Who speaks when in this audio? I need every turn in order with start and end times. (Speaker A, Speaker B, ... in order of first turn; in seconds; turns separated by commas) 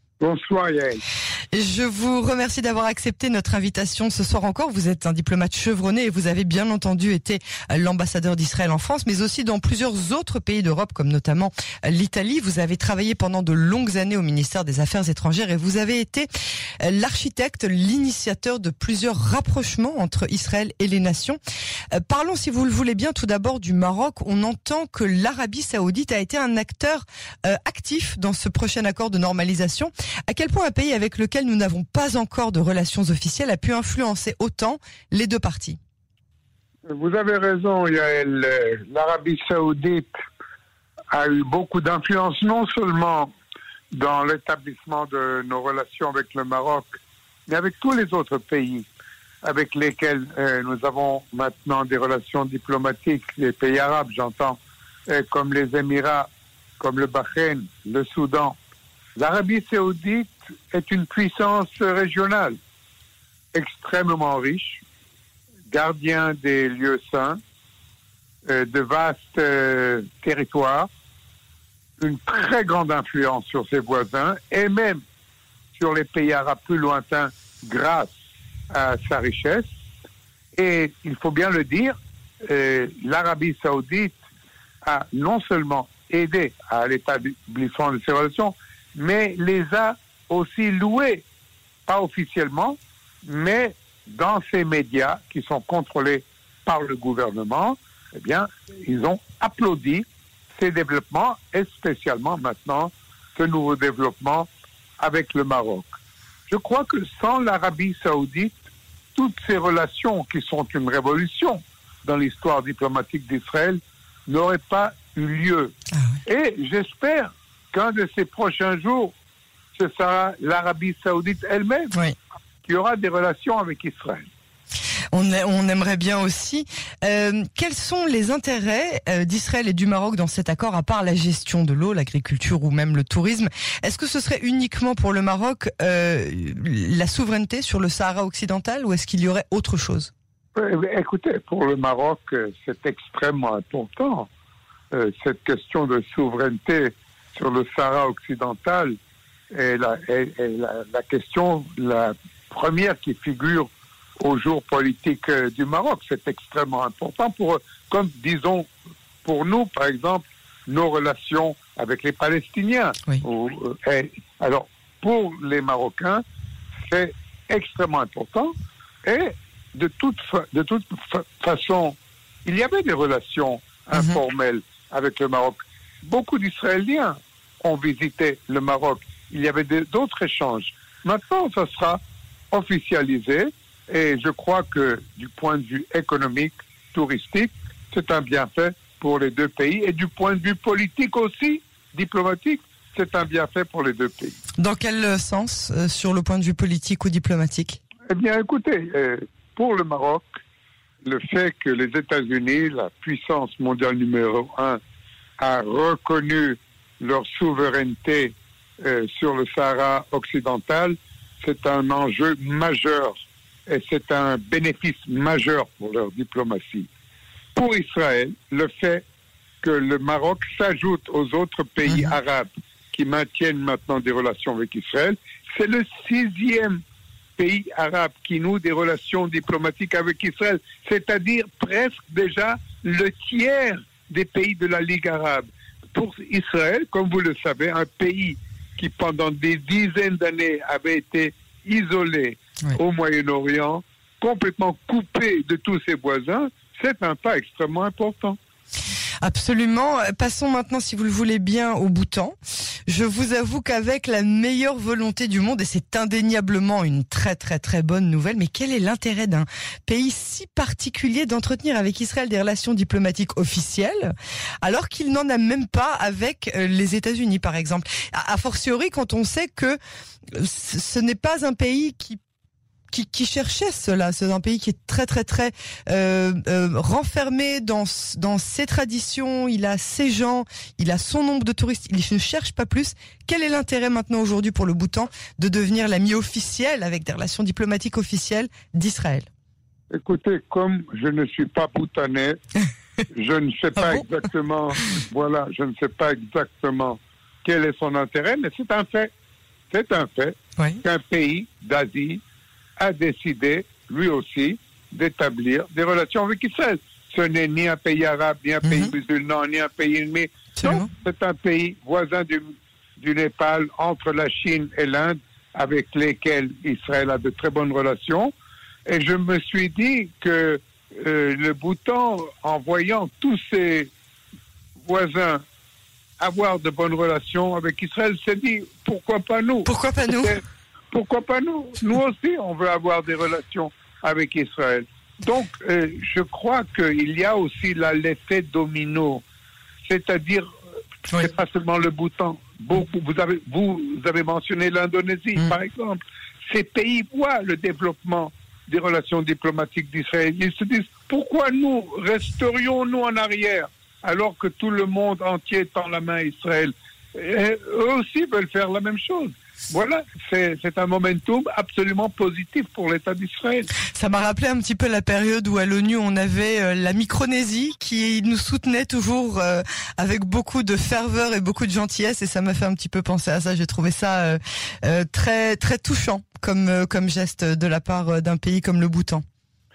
Speaker A: 0.2-1.0, Speaker B: 1.5-16.3, Speaker B: 16.8-21.4, Speaker B: 21.9-35.8, Speaker A: 36.9-40.1, Speaker A: 41.1-43.3, Speaker A: 43.9-48.9, Speaker A: 49.4-58.6, Speaker A: 59.1-62.6, Speaker A: 63.5-64.8, Speaker A: 65.7-67.4, Speaker A: 68.4-70.9, Speaker A: 72.0-75.0, Speaker A: 75.7-78.1, Speaker A: 78.7-79.7, Speaker A: 80.5-84.2, Speaker A: 84.8-91.2, Speaker A: 91.9-105.9, Speaker A: 106.5-108.6, Speaker A: 109.1-115.7, Speaker A: 116.2-119.1, Speaker A: 119.7-121.9, Speaker A: 122.6-124.3, Speaker B: 125.1-140.1, Speaker A: 140.6-144.3, Speaker A: 144.9-149.0, Speaker A: 149.5-158.7, Speaker A: 159.2-166.2, Speaker A: 166.9-168.5, Speaker A: 169.0-182.0, Speaker A: 182.5-194.4, Speaker B: 194.6-197.8, Speaker A: 198.1-200.3, Speaker A: 201.0-204.8, Speaker A: 205.4-216.9, Speaker A: 217.5-219.0, Speaker A: 219.6-226.8, Speaker B: 221.8-222.1, Speaker A: 227.4-248.4, Speaker B: 249.2-252.3, Speaker B: 252.9-269.8, Speaker B: 270.3-272.2, Speaker B: 272.9-289.3, Speaker A: 289.9-292.4, Speaker A: 293.1-299.1, Speaker B: 293.8-294.0, Speaker A: 299.7-302.2, Speaker A: 302.8-318.3, Speaker B: 308.6-308.9, Speaker B: 310.6-310.9, Speaker A: 318.9-323.9, Speaker A: 324.8-325.4, Speaker A: 326.2-339.2, Speaker B: 329.6-330.4, Speaker A: 339.8-340.5, Speaker A: 341.1-363.7, Speaker B: 363.9-379.2